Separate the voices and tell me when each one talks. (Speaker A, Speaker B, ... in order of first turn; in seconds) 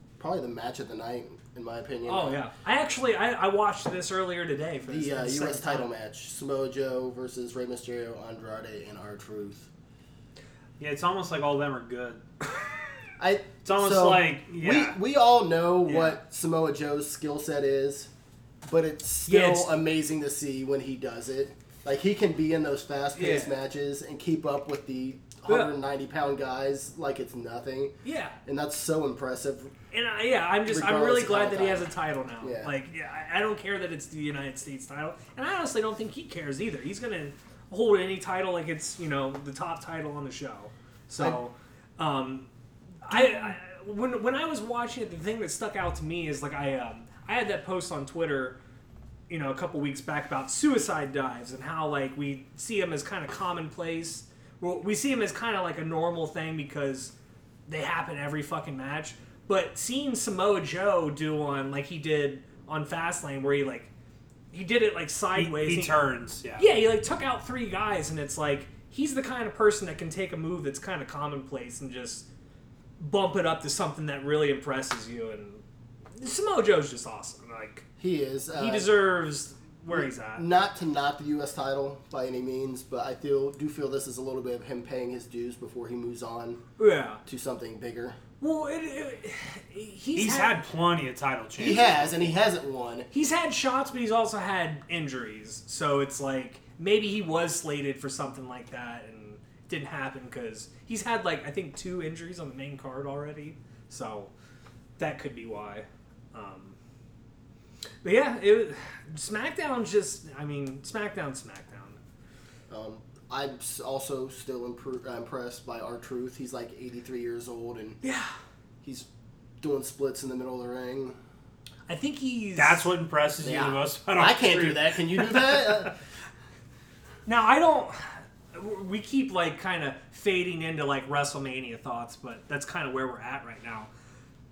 Speaker A: 0.2-2.4, 4.8-9.7, 13.2-18.1, 18.6-29.7, 30.6-31.9, 32.4-32.7, 78.0-78.9, 79.9-86.6, 87.2-88.2, 91.6-93.1, 112.7-118.0, 118.8-119.1, 119.6-121.2, 123.4-125.9
Speaker B: 2.0-5.9, 15.8-16.2, 19.3-19.7, 23.1-23.5, 25.5-25.7, 28.0-28.4, 29.9-42.5, 43.0-48.6, 49.3-57.1, 57.7-63.9, 64.5-66.0, 66.6-72.3, 73.0-75.6, 76.2-77.8, 78.5-80.4, 86.8-87.2, 88.4-90.6, 93.1-104.3, 105.0-106.8, 108.0-112.0, 118.0-118.3, 121.9-122.9, 127.2-133.9
Speaker C: 10.8-12.2, 13.6-15.0, 65.3-66.8, 90.1-92.3, 122.5-125.8